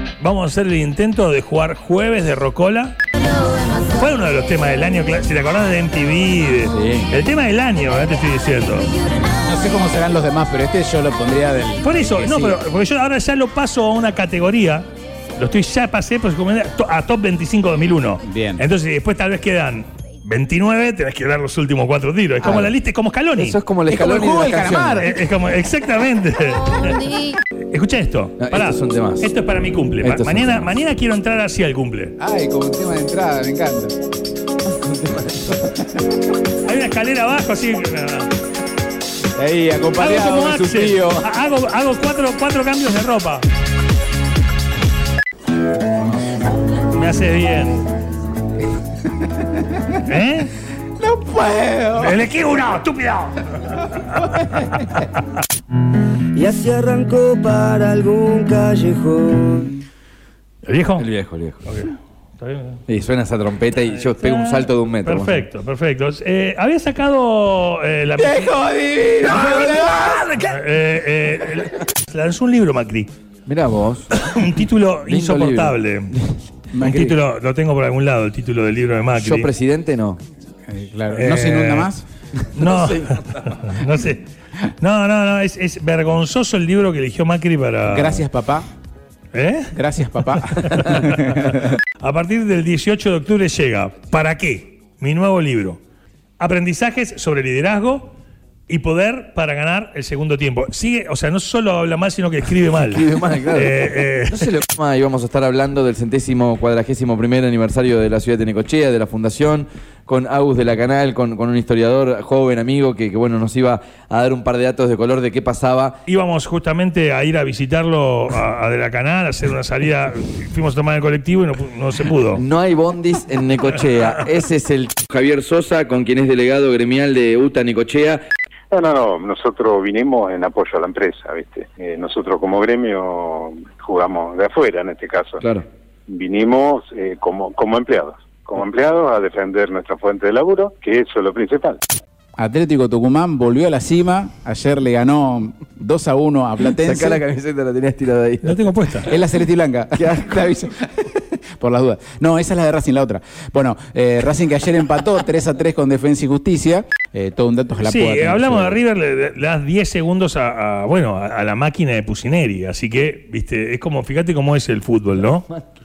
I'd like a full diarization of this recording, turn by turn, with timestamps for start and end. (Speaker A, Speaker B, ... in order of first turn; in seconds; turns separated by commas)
Speaker A: 0.2-3.0, Speaker A: 3.9-8.9, Speaker B: 9.4-12.6, Speaker A: 11.8-14.8, Speaker A: 15.4-23.6, Speaker B: 18.2-18.6, Speaker C: 23.4-25.1, Speaker B: 23.9-25.1, Speaker A: 25.0-27.1, Speaker A: 27.7-32.2, Speaker C: 28.4-29.3, Speaker C: 30.0-30.7, Speaker B: 32.2-33.9, Speaker A: 36.6-38.3, Speaker B: 39.4-41.2, Speaker A: 40.0-43.4, Speaker A: 46.8-47.9, Speaker B: 49.2-49.9, Speaker A: 50.0-50.5, Speaker B: 51.0-52.3, Speaker A: 52.0-55.1, Speaker D: 56.3-59.8, Speaker A: 60.6-61.1, Speaker C: 61.0-61.6, Speaker A: 61.7-62.8, Speaker C: 62.9-65.5, Speaker A: 63.9-68.6, Speaker B: 68.2-70.4, Speaker A: 69.2-73.1, Speaker C: 73.5-74.1, Speaker A: 74.1-76.1, Speaker C: 75.1-75.8, Speaker B: 76.7-77.2, Speaker A: 76.8-79.5, Speaker C: 79.2-80.2, Speaker B: 80.7-82.0, Speaker A: 81.1-81.9, Speaker A: 82.5-84.2, Speaker C: 82.6-83.6, Speaker A: 84.8-88.2, Speaker B: 87.9-88.7, Speaker A: 89.3-89.7, Speaker B: 89.7-91.6, Speaker A: 90.4-95.8, Speaker A: 96.4-98.1, Speaker A: 98.7-104.5, Speaker C: 102.8-116.0, Speaker A: 116.1-122.4, Speaker C: 122.3-128.2, Speaker E: 128.7-135.4, Speaker C: 135.4-135.7, Speaker E: 136.1-141.8, Speaker B: 142.4-147.2, Speaker C: 146.7-149.2, Speaker A: 148.4-149.1, Speaker B: 149.1-158.8, Speaker C: 149.9-150.6, Speaker A: 157.8-165.5